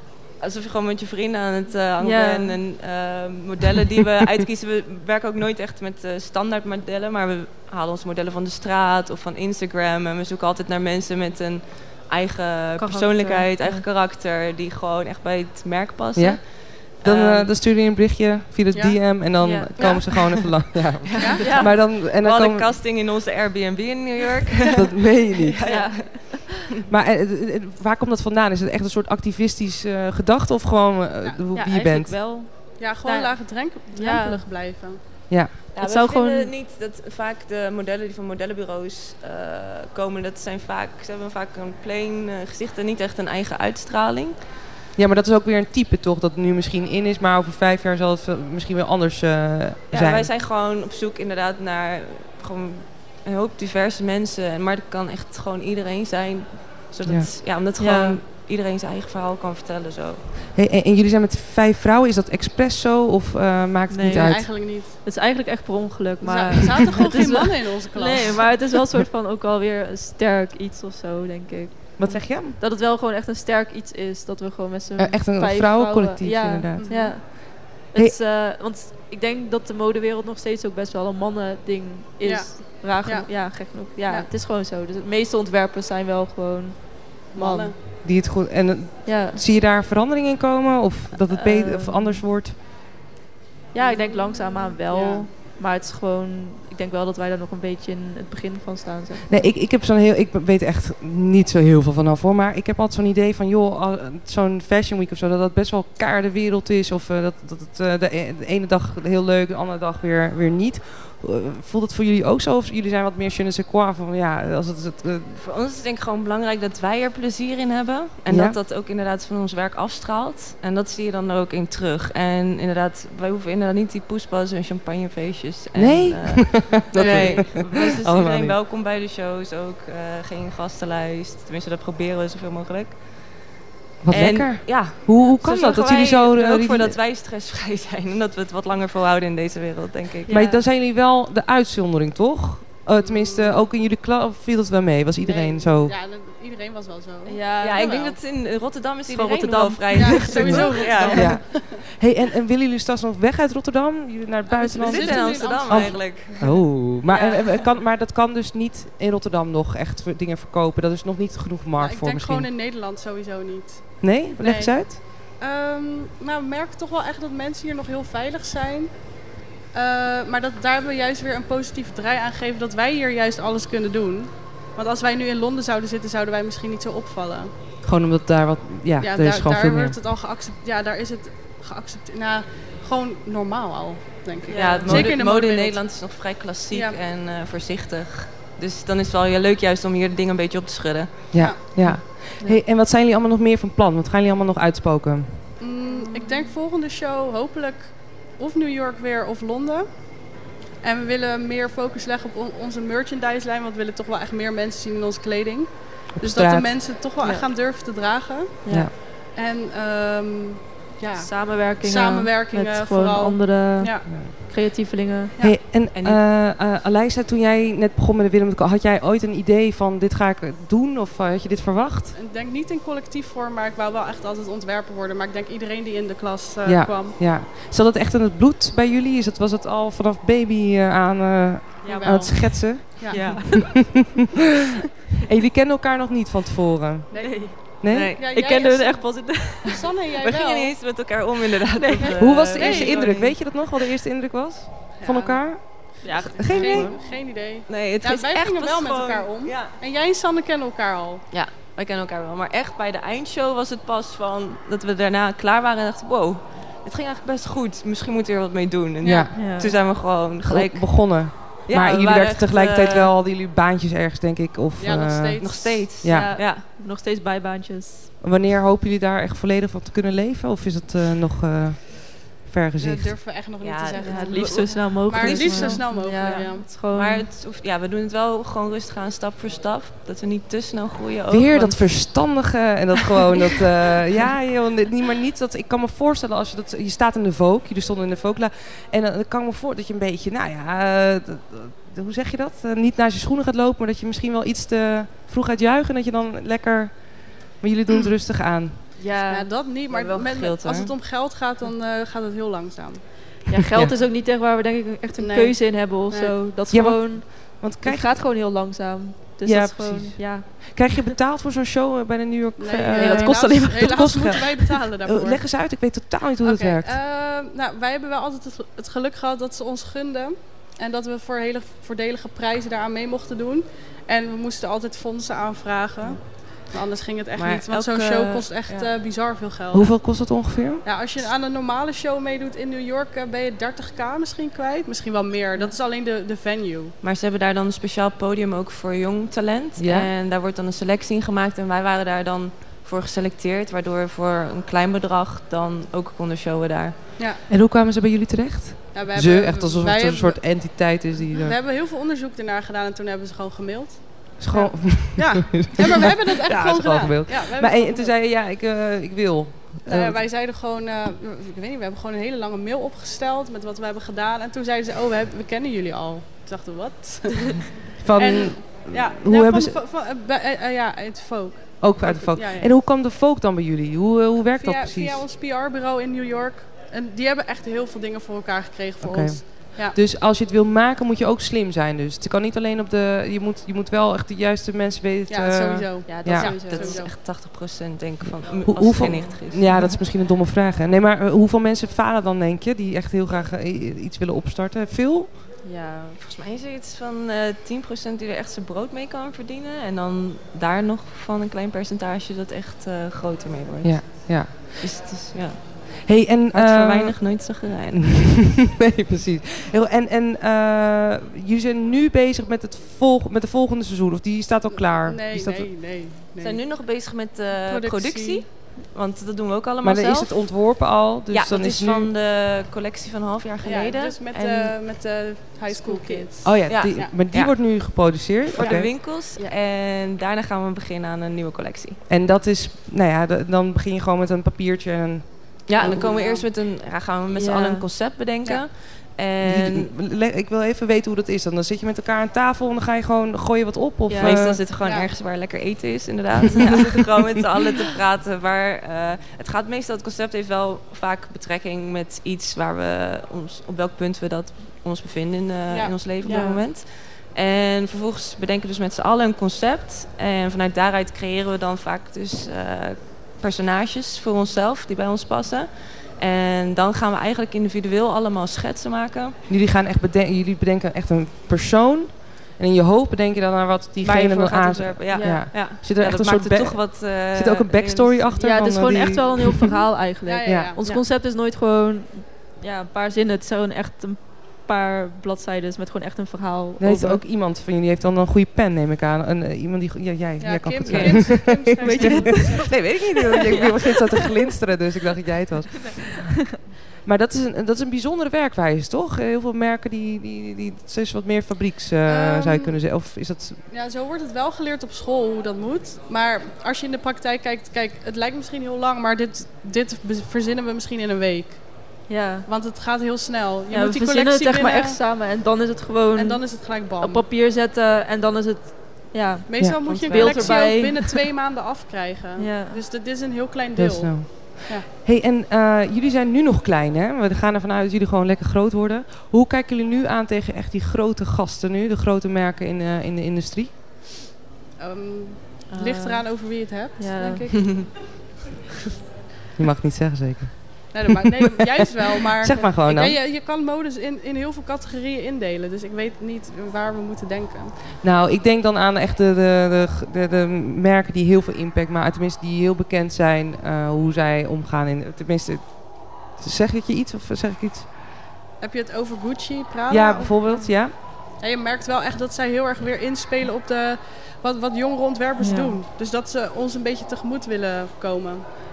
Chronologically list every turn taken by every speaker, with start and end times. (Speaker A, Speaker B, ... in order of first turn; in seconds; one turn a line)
Speaker A: 0.4-17.5
Speaker B: 2.0-2.6
Speaker B: 12.8-13.8
Speaker C: 16.1-22.7
Speaker D: 18.7-19.0
Speaker B: 19.4-20.1
Speaker A: 19.8-20.4
Speaker A: 21.0-26.8
Speaker D: 21.2-21.5
Speaker B: 21.4-21.7
Speaker C: 24.7-25.6
Speaker B: 25.6-26.5
Speaker C: 26.9-32.2
Speaker B: 31.5-34.4
Speaker D: 32.8-35.0
Speaker C: 35.3-35.5
Speaker A: 35.7-44.4
Speaker B: 35.8-36.5
Speaker C: 45.0-50.3
Speaker A: 49.9-60.3
Speaker C: 57.0-57.3
Speaker B: 57.8-58.2
Speaker C: 60.5-64.5
Speaker B: 63.9-87.4
Speaker D: 64.1-65.0
Speaker D: 66.2-68.5
Speaker C: 72.0-72.6
Speaker C: 75.0-78.2
Speaker D: 76.8-77.2
Speaker D: 82.2-84.3
Speaker D: 87.3-87.8
Speaker C: 87.4-92.6
Speaker B: 89.0-89.4
Speaker B: 91.3-92.2
Speaker B: 93.7-99.5
Speaker D: 93.8-95.3
Speaker C: 99.3-115.4
Speaker A: 115.3-133.3
Speaker C: 118.3-118.6
Speaker C: 125.7-128.6
Speaker D: 126.9-127.5
Speaker C: 134.0-137.0
Speaker A: 134.1-140.4
Speaker B: 140.3-140.6
Speaker C: 140.3-145.9
Speaker D: 142.9-143.6
Speaker D: 145.2-148.2
Speaker B: 147.2-148.0
Speaker A: 147.6-151.4
Speaker B: 149.1-151.3
Speaker D: 149.9-151.8
Speaker C: 150.4-162.5
Speaker D: 154.5-157.6
Speaker A: 154.7-156.4
Speaker D: 161.8-177.5
Speaker C: 164.0-165.0
Speaker C: 177.8-179.9
Speaker D: 179.0-185.8
Speaker B: 184.4-185.1
Speaker A: 184.5-191.3
Speaker D: 186.7-187.0
Speaker C: 191.3-195.5
Speaker B: 191.8-192.6
Speaker D: 195.6-200.0
Speaker D: 200.8-214.1
Speaker C: 206.1-206.8
Speaker B: 207.2-207.5
Speaker B: 208.6-208.9
Speaker B: 211.2-215.3
Speaker C: 214.1-214.3
Speaker C: 215.4-222.1
Speaker A: 215.9-216.2
Speaker D: 222.1-227.2
Speaker C: 226.6-233.6
Speaker D: 231.8-233.4
Speaker B: 231.8-232.5
Speaker B: 233.1-234.0
Speaker C: 235.2-238.1
Speaker D: 237.1-237.6
Speaker B: 237.2-237.6
Speaker A: 237.8-238.3
Speaker D: 238.1-240.7
Speaker B: 238.3-239.9
Speaker A: 240.2-243.6
Speaker B: 241.7-242.3
Speaker D: 242.0-243.0
Speaker C: 242.2-246.9
Speaker D: 245.0-251.2
Speaker B: 246.0-247.0
Speaker A: 247.7-249.7
Speaker A: 251.3-263.1
Speaker D: 259.0-259.3
Speaker C: 259.0-259.3
Speaker B: 259.3-259.7
Speaker C: 260.4-266.3
Speaker D: 264.8-265.9
Speaker A: 265.4-266.6
Speaker B: 266.1-268.1
Speaker C: 268.2-273.2
Speaker D: 272.8-276.7
Speaker A: 273.6-276.4
Speaker B: 274.0-277.3
Speaker A: 276.9-282.2
Speaker C: 281.3-298.8
Speaker B: 299.0-299.5
Speaker D: 299.2-303.1
Speaker A: 299.9-300.9
Speaker B: 303.5-311.1
Speaker D: 305.2-306.4
Speaker C: 306.7-308.2
Speaker C: 309.4-317.0
Speaker D: 312.6-315.4
Speaker B: 312.9-314.4
Speaker D: 316.4-330.0
Speaker A: 327.4-328.9
Speaker C: 329.7-330.8
Speaker D: 330.8-336.9
Speaker A: 337.0-347.0
Speaker C: 339.8-340.1
Speaker C: 347.5-351.5
Speaker D: 348.9-358.1
Speaker C: 354.4-360.2
Speaker D: 359.9-372.7
Speaker C: 368.0-369.8
Speaker C: 371.8-375.2
Speaker D: 374.5-380.0
Speaker C: 379.0-386.5
Speaker D: 385.3-387.1
Speaker B: 386.1-387.0
Speaker A: 386.6-389.9
Speaker C: 388.2-395.3
Speaker B: 395.6-396.2
Speaker A: 396.2-408.4
Speaker C: 403.8-405.1
Speaker C: 406.0-415.7
Speaker D: 414.7-416.6
Speaker A: 416.4-420.6
Speaker D: 417.6-418.4
Speaker C: 419.8-422.1
Speaker A: 421.3-424.7
Speaker D: 423.6-427.1
Speaker B: 425.7-426.4
Speaker C: 426.4-428.9
Speaker A: 426.7-427.5
Speaker A: 428.5-432.0
Speaker C: 432.1-436.0
Speaker A: 435.7-439.9
Speaker D: 435.8-436.4
Speaker B: 435.8-436.3
Speaker B: 437.3-437.9
Speaker C: 439.4-444.6
Speaker B: 444.1-444.5
Speaker A: 444.2-469.4
Speaker D: 444.8-445.1
Speaker D: 455.7-456.6
Speaker B: 456.2-456.6
Speaker C: 469.5-479.8
Speaker A: 474.0-478.3
Speaker B: 475.1-475.5
Speaker B: 478.4-487.2
Speaker D: 480.2-480.9
Speaker C: 480.4-480.7
Speaker C: 486.8-496.4
Speaker D: 490.4-493.7
Speaker A: 490.9-491.6
Speaker B: 491.8-492.8
Speaker C: 497.0-503.6
Speaker D: 502.0-502.8
Speaker D: 503.7-515.0
Speaker B: 512.1-512.5
Speaker B: 513.7-521.2
Speaker D: 516.1-517.3
Speaker D: 519.5-524.9
Speaker A: 519.9-520.8
Speaker B: 522.4-522.8
Speaker C: 523.8-533.7
Speaker D: 534.8-537.7
Speaker B: 535.7-537.9
Speaker A: 537.5-537.8
Speaker C: 539.6-541.8
Speaker D: 540.9-547.8
Speaker C: 542.4-543.2
Speaker C: 548.0-557.9
Speaker D: 558.6-560.4
Speaker C: 559.9-560.9
Speaker D: 561.4-568.4
Speaker B: 565.4-565.8